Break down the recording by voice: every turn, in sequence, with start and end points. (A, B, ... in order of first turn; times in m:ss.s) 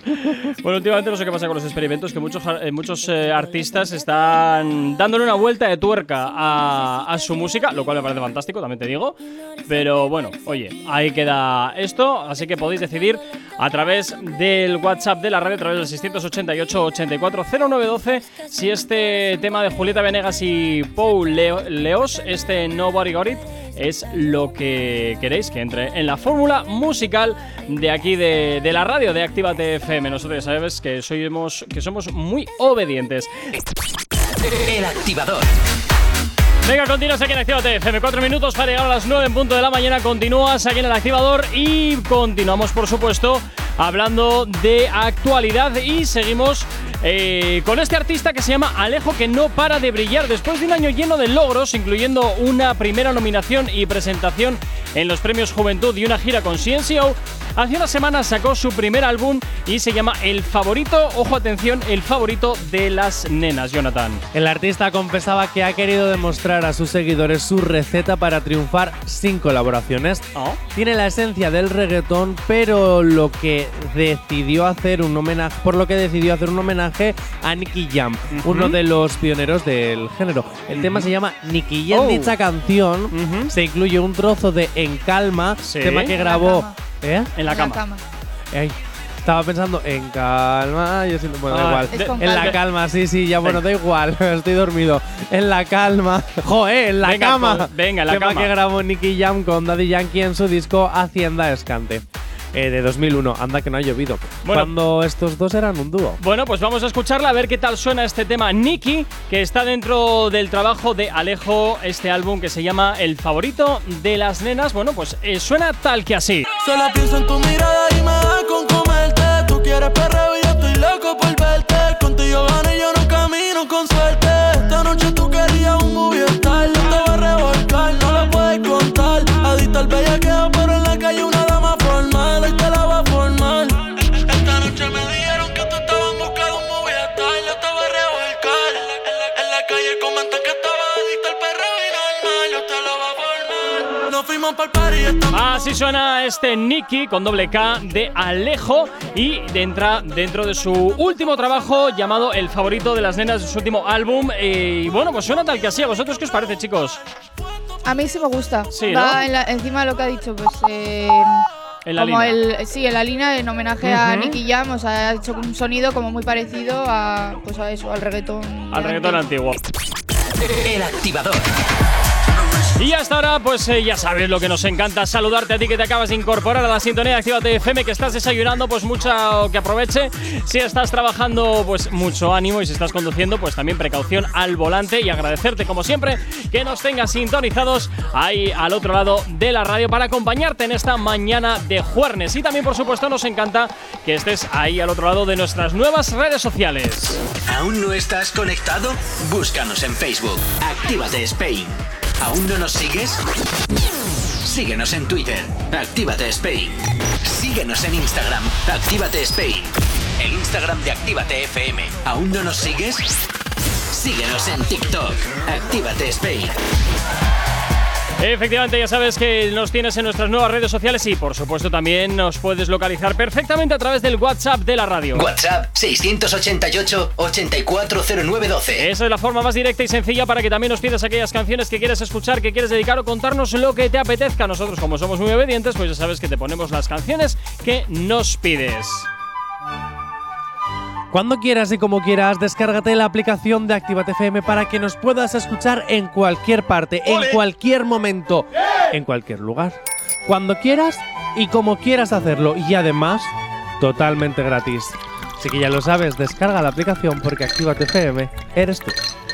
0:00.2-0:33.3 A
0:34.4-0:35.5 B
0:36.6-1:04.2 A
1:04.3-1:27.3 C
1:18.3-1:18.8 A
1:20.7-1:21.1 A
1:21.9-1:22.4 A
1:23.1-1:23.5 A
1:25.6-1:26.1 A
1:26.0-1:26.8 D
1:27.4-1:27.8 A
1:27.5-1:28.0 D
1:28.5-1:46.2 C
1:31.5-1:32.6 A
1:31.9-1:32.6 D
1:37.0-1:38.5 A
1:44.4-1:44.7 A
1:46.2-1:56.5 A
1:56.6-2:25.5 E
2:25.3-2:37.0 A
2:37.8-2:49.2 D
2:38.7-2:39.3 A
2:41.9-2:42.4 A
2:43.8-2:44.4 A
2:48.7-2:49.6 A
2:50.6-2:51.5 B
2:52.8-3:17.2 A
3:17.5-3:23.2 B
3:24.4-3:33.2 B
3:33.9-3:36.6 B
3:38.2-3:45.3 A
3:45.1-3:48.9 B
3:48.8-3:59.1 A
4:01.1-4:19.0 C